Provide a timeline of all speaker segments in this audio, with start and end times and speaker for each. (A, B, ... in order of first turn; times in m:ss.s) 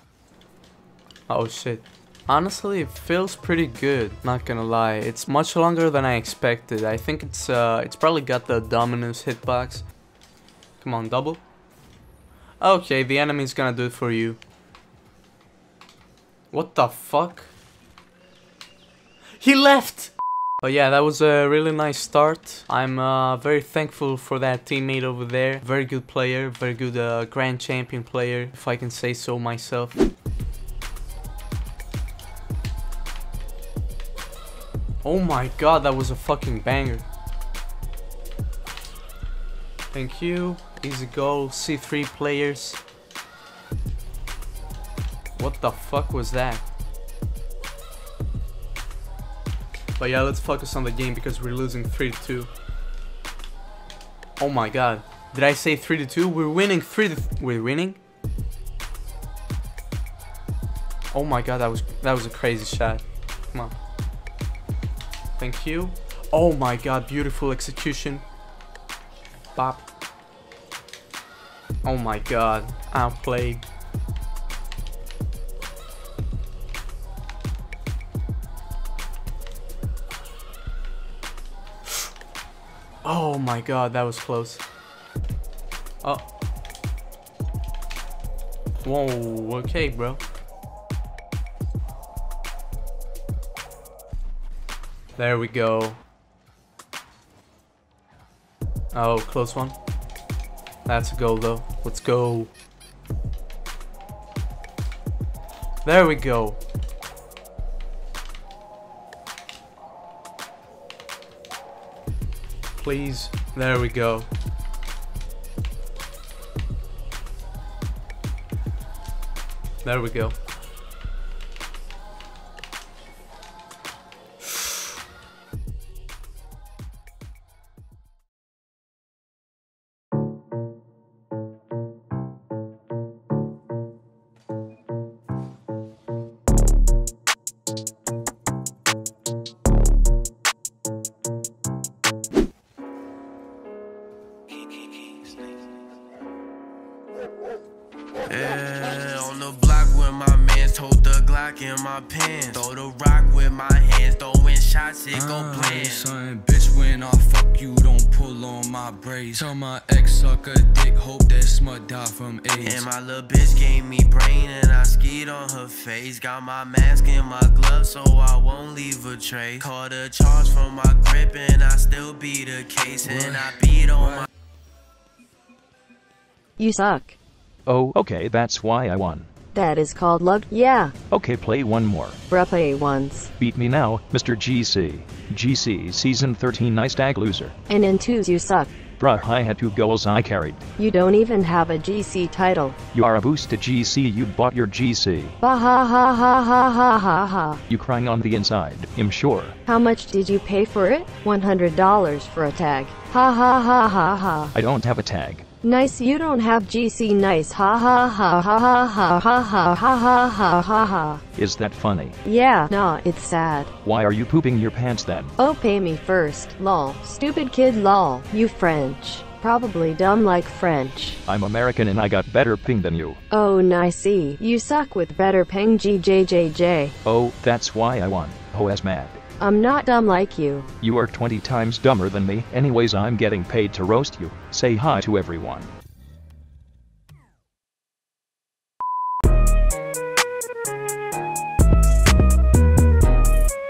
0:01.3-0:09.8 A
0:10.8-0:11.4 A
0:12.6-0:14.4 A
0:16.5-0:17.5 A
0:19.4-0:30.0 A
0:35.0-0:37.0 A
0:39.9-0:42.8 A
0:45.4-0:46.6 A
0:50.0-0:52.5 A
0:54.4-0:58.0 A
1:01.1-1:03.8 A
1:05.4-1:08.2 A
1:09.6-1:09.8 A
1:11.8-1:13.6 A
1:23.0-1:24.6 A
1:28.8-1:30.2 A
1:35.2-1:36.0 A
1:38.9-1:39.8 A
1:40.9-1:42.5 A
1:45.8-1:46.6 A
1:52.8-1:54.3 A
1:59.8-2:00.4 A
2:28.3-2:36.1 B
2:35.1-2:42.8 C
2:42.6-2:54.3 B
2:53.0-2:54.3 C
2:56.6-2:57.2 D
2:57.7-2:59.3 E
2:59.5-3:00.9 D
3:01.1-3:02.2 E
3:02.3-3:03.3 D
3:03.4-3:07.6 E
3:07.7-3:08.7 D
3:09.0-3:10.7 E
3:10.8-3:12.8 D
3:12.9-3:15.4 E
3:15.4-3:17.6 D
3:17.7-3:19.6 E
3:19.7-3:24.5 D
3:24.5-3:25.5 E
3:25.6-3:31.2 D
3:31.4-3:32.2 E
3:32.2-3:33.7 D
3:33.8-3:35.3 E
3:35.4-3:41.2 D
3:41.3-3:43.2 E
3:43.3-3:47.0 D
3:47.0-3:49.2 E
3:49.4-3:50.7 D
3:50.8-3:55.7 E